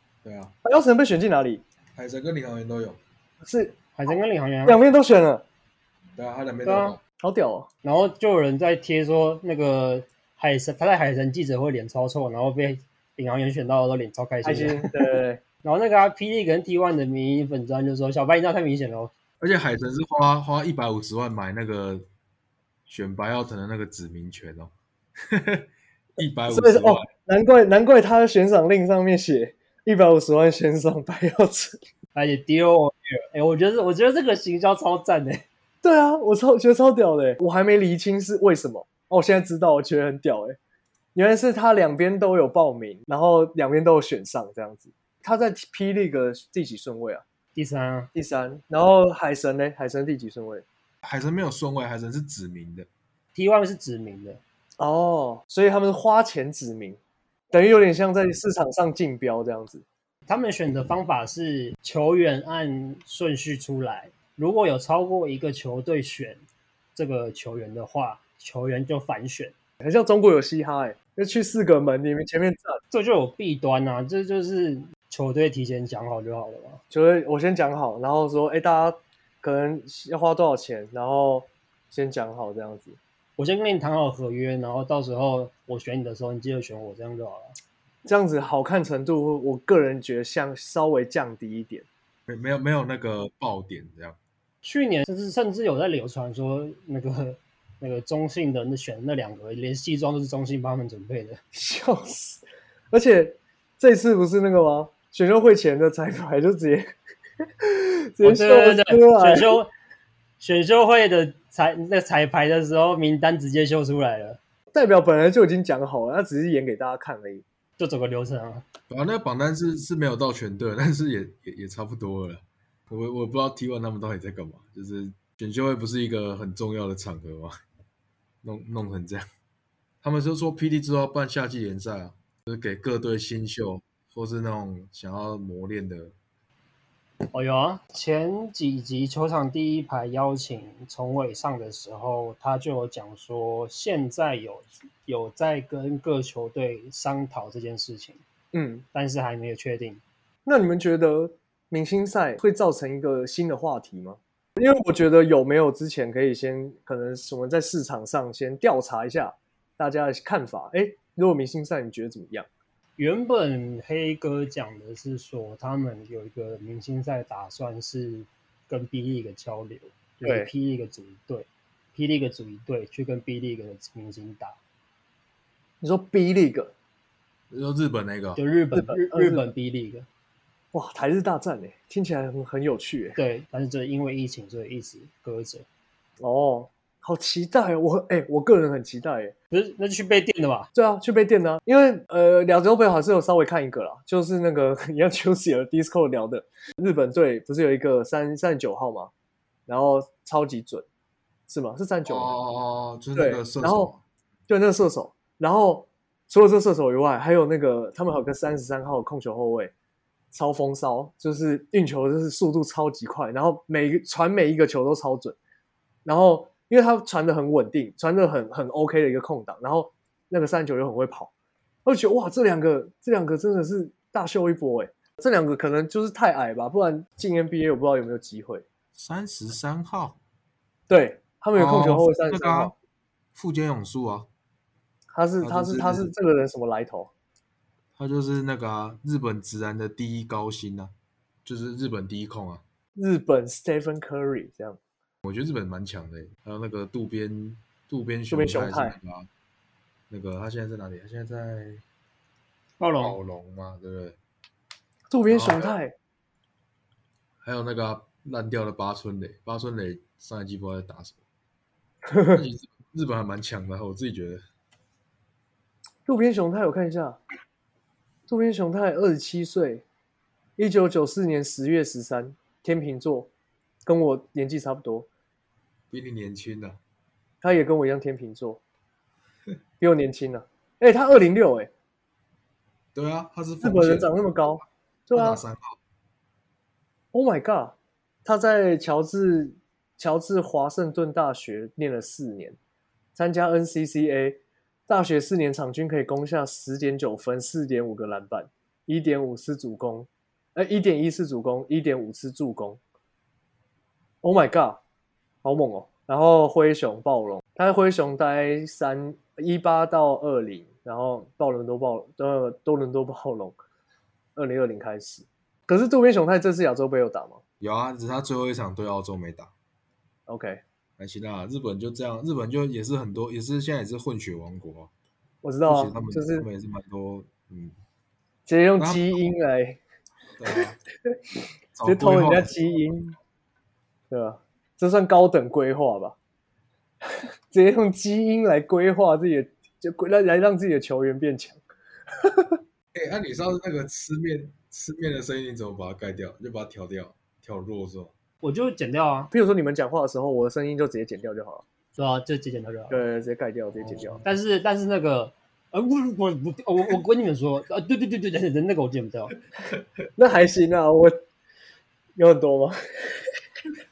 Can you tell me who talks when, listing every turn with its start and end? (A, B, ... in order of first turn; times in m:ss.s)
0:00.2-0:00.5 A
0:00.6-0:01.6 B
0:01.9-0:03.0 A
0:03.4-0:05.4 B
0:03.9-0:04.8 C
0:06.2-0:07.0 A
0:06.6-0:07.0 C
0:07.2-0:07.7 B
0:07.8-0:14.9 C
0:14.4-0:15.4 B
0:15.6-0:19.1 C
0:19.4-0:22.0 A
0:22.9-0:24.7 A
0:25.3-0:25.6 A
0:26.2-0:27.1 A
0:26.5-0:31.8 B
0:32.2-0:35.4 C
0:35.8-0:40.6 B
0:41.1-0:47.2 B
0:47.5-0:48.1 C
0:48.1-0:50.6 B
0:51.0-0:52.9 A
0:53.3-0:54.4 C
0:54.8-0:57.0 B
0:57.5-0:59.8 B
1:00.3-1:06.4 C
1:07.0-1:09.5 C
1:09.8-1:12.8 B
1:12.9-1:16.8 C
1:16.9-1:23.0 B
1:23.4-1:27.5 C
1:28.0-1:31.9 B
1:32.3-1:34.2 A
1:34.6-1:41.4 C
1:41.5-1:46.9 B
1:47.6-1:49.6 B
1:48.2-1:49.7 C
1:50.4-1:54.4 C
1:54.7-1:57.4 B
1:57.8-1:58.6 C
1:58.9-2:07.5 A
2:08.4-2:09.2 A
2:10.0-2:16.1 A
2:17.3-2:28.2 C
2:28.5-2:28.8 B
2:28.9-2:30.0 C
2:30.4-2:42.5 B
2:43.0-2:54.6 C
2:50.2-2:50.5 B
2:55.8-2:56.7 B
2:57.5-2:58.4 A
2:58.4-3:00.1 C
2:58.7-2:59.5 B
3:00.7-3:03.2 B
3:03.2-3:05.6 C
3:06.2-3:09.3 B
3:09.5-3:10.7 C
3:10.7-3:19.1 B
3:19.7-3:20.8 B
3:21.5-3:22.3 B
3:22.0-3:24.0 A
3:23.1-3:23.9 B
3:24.5-3:29.7 B
3:30.3-3:35.4 B
3:36.0-3:41.3 B
3:41.8-3:48.6 B
3:48.9-3:50.2 A
3:50.9-3:52.8 B
3:51.5-3:52.7 A
3:53.3-3:54.3 A
3:55.1-3:57.1 B
3:55.4-3:56.1 A
3:58.0-4:00.9 A
4:01.4-4:02.6 A
4:03.0-4:04.8 B
4:05.2-4:09.2 A
4:08.3-4:09.0 B
4:10.1-4:11.8 A
4:12.8-4:13.2 C
4:13.0-4:14.2 A
4:15.1-4:16.0 B
4:15.3-4:15.7 A
4:17.4-4:21.2 A
4:22.1-4:22.4 B
4:22.3-4:24.4 A
4:26.0-4:27.2 B
4:28.3-4:29.8 B
4:30.6-4:33.3 B
4:33.8-4:35.1 B
4:35.9-4:36.8 A
4:37.4-4:38.6 B
4:39.8-4:41.7 B
4:42.9-4:44.1 A
4:43.6-4:45.4 B
4:45.1-4:45.8 A
4:47.1-4:52.6 B
4:53.2-5:02.8 B
5:04.2-5:04.8 B
5:05.4-5:13.6 B
5:14.4-5:17.4 B
5:17.6-5:19.5 A
5:20.3-5:20.6 B
5:21.0-5:24.9 A
5:25.4-5:26.5 B
5:25.6-5:27.7 A
5:28.4-5:29.8 B
5:28.8-5:29.1 A
5:30.4-5:30.8 A
5:31.7-5:32.5 A
5:31.8-5:33.1 B
5:34.1-5:36.2 B
5:37.5-5:41.6 B
5:42.2-5:42.5 B
5:42.9-5:48.1 A
5:48.4-5:49.3 C
5:49.3-5:51.6 B
5:52.0-5:53.0 C
5:52.9-5:54.2 B
5:54.2-5:59.4 C
6:00.2-6:01.1 B
6:02.2-6:03.2 B